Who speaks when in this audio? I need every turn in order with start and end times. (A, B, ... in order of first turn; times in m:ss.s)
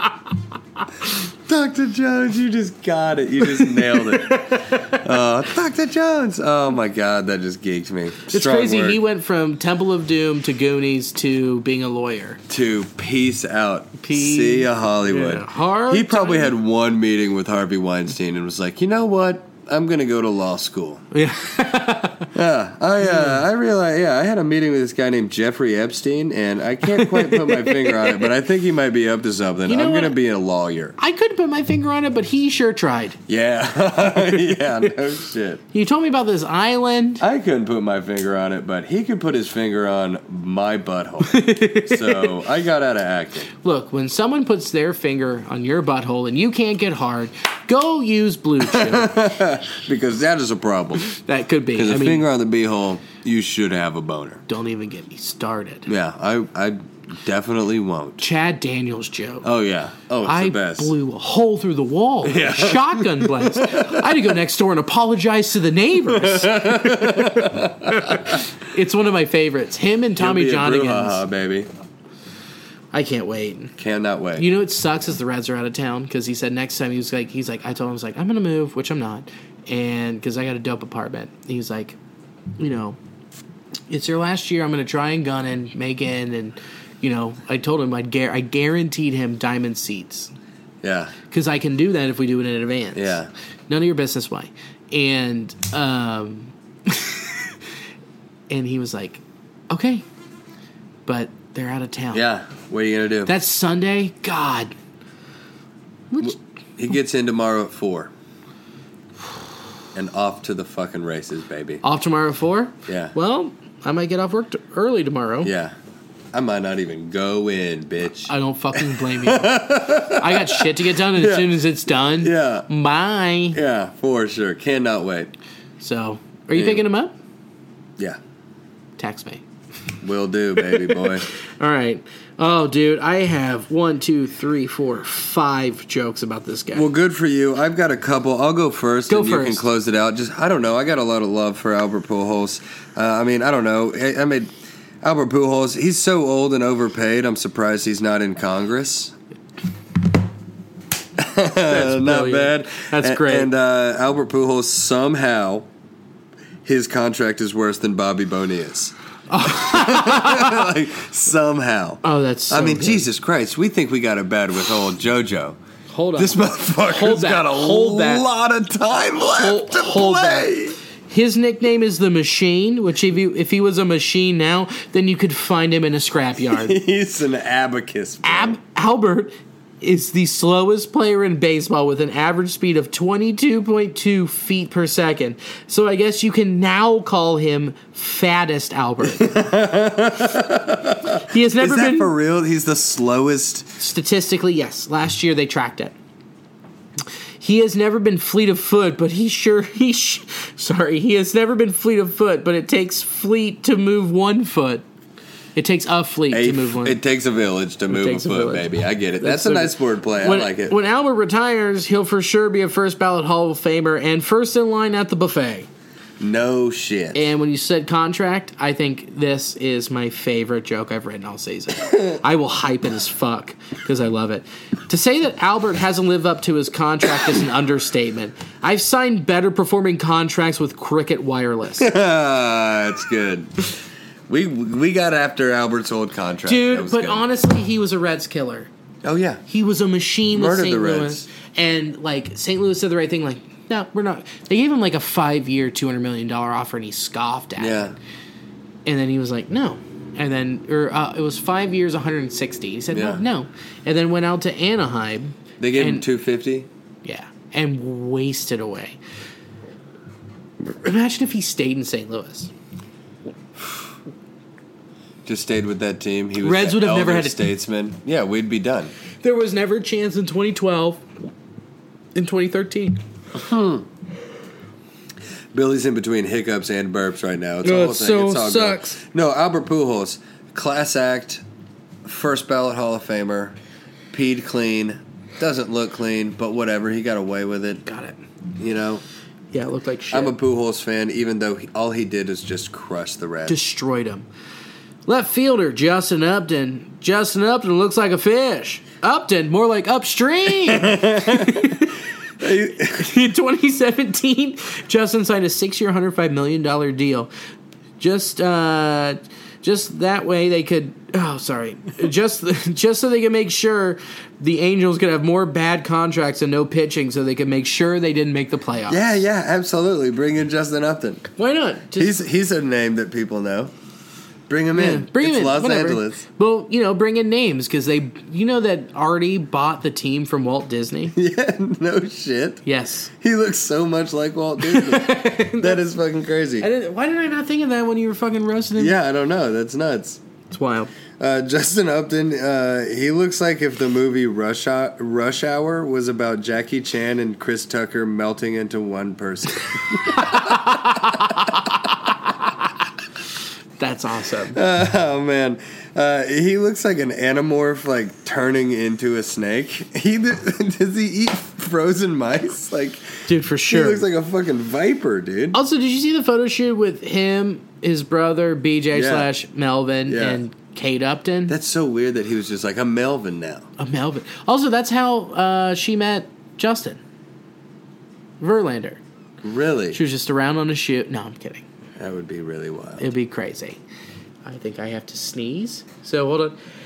0:01.5-0:09.0 A
0:03.6-0:05.0 B
0:08.3-0:12.4 B
0:12.5-0:21.0 A
0:14.0-0:16.6 B
0:21.1-0:22.3 B
0:22.3-0:31.0 A
0:26.9-0:28.3 B
0:29.7-0:30.2 B
0:31.0-0:33.2 B
0:33.3-0:35.6 A
0:35.7-0:37.2 B
0:37.2-0:43.5 A
0:41.2-0:42.3 B
0:43.6-0:49.2 B
0:48.6-0:51.1 A
0:51.1-0:52.3 B
0:51.7-0:54.4 A
0:54.5-0:55.9 B
0:55.9-0:58.2 A
0:58.2-0:59.5 B
0:59.4-1:00.9 A
1:00.2-1:11.2 B
1:02.2-1:04.1 A
1:06.1-1:08.4 A
1:10.2-1:11.7 A
1:12.9-1:13.7 B
1:13.8-1:14.5 A
1:14.4-1:22.0 B
1:22.6-1:23.0 B
1:23.9-1:30.3 B
1:30.8-1:31.2 A
1:31.3-1:37.6 B
1:33.0-1:33.3 A
1:38.5-1:40.0 B
1:41.1-1:42.2 B
1:42.1-1:43.3 A
1:43.3-1:44.8 B
1:46.1-1:46.4 B
1:46.2-1:48.1 A
1:49.9-1:51.8 A
1:51.8-1:55.5 B
1:52.9-1:53.1 A
1:55.4-1:55.8 A
1:56.3-2:02.7 A
1:58.3-2:03.6 B
2:03.5-2:05.3 A
2:05.8-2:07.1 B
2:06.5-2:06.8 A
2:09.0-2:09.4 B
2:10.0-2:11.2 A
2:10.6-2:16.9 B
2:16.7-2:24.5 A
2:19.1-2:19.6 B
2:25.0-2:29.1 A
2:31.2-2:35.7 A
2:31.7-2:33.5 B
2:36.6-2:45.6 A
2:39.3-2:40.7 B
2:42.0-2:43.1 B
2:45.9-2:48.3 B
2:46.2-2:50.8 A
2:49.3-2:56.8 B
2:56.5-2:58.6 A
2:58.2-3:09.3 B
3:09.2-3:13.8 A
3:11.3-3:12.1 B
3:13.8-3:15.9 B
3:17.4-3:24.8 B
3:25.6-3:27.0 B
3:26.3-3:30.8 A
3:27.9-3:35.7 B
3:36.2-3:37.3 A
3:37.1-3:51.9 B
3:51.8-3:53.7 A
3:54.3-3:57.2 A
3:56.5-3:58.7 B
3:59.0-3:59.4 A
3:59.5-4:08.0 B
4:00.3-4:01.3 A
4:07.6-4:08.0 A
4:08.9-4:16.1 B
4:12.9-4:13.2 A
4:15.6-4:16.7 A
4:17.0-4:19.0 B
4:20.6-4:22.5 B
4:25.2-4:28.9 A
4:26.4-4:27.4 B
4:29.2-4:31.0 B
4:32.2-4:33.0 B
4:33.3-4:33.9 A
4:35.5-4:41.4 A
4:37.6-4:39.0 B
4:42.0-4:43.6 A
4:44.1-4:47.8 A
4:47.9-4:48.2 B
4:48.6-4:49.0 A
4:49.5-4:50.4 B
4:50.1-4:53.6 A
4:53.5-4:54.3 B
4:55.1-5:02.0 B
5:00.7-5:01.8 A
5:02.4-5:03.1 A
5:02.7-5:07.3 B
5:08.0-5:19.2 B
5:18.9-5:21.3 A
5:21.4-5:22.2 B
5:22.0-5:23.7 A
5:24.5-5:26.2 A
5:24.7-5:31.2 B
5:31.2-5:36.7 A
5:32.7-5:33.1 B
5:34.6-5:35.8 B
5:36.6-5:39.0 B
5:38.8-5:40.2 A
5:40.5-5:40.9 B
5:41.2-5:51.2 A
5:50.2-5:51.1 B
5:53.8-5:54.6 B
5:54.5-6:05.6 A
6:03.3-6:04.0 B
6:05.5-6:11.5 B
6:08.9-6:09.3 A
6:10.1-6:10.4 A
6:11.5-6:13.7 A
6:13.8-6:17.0 B
6:18.4-6:19.0 B
6:19.4-6:20.0 A
6:19.9-6:21.6 B
6:22.0-6:23.1 A
6:23.0-6:23.8 B
6:24.4-6:26.6 B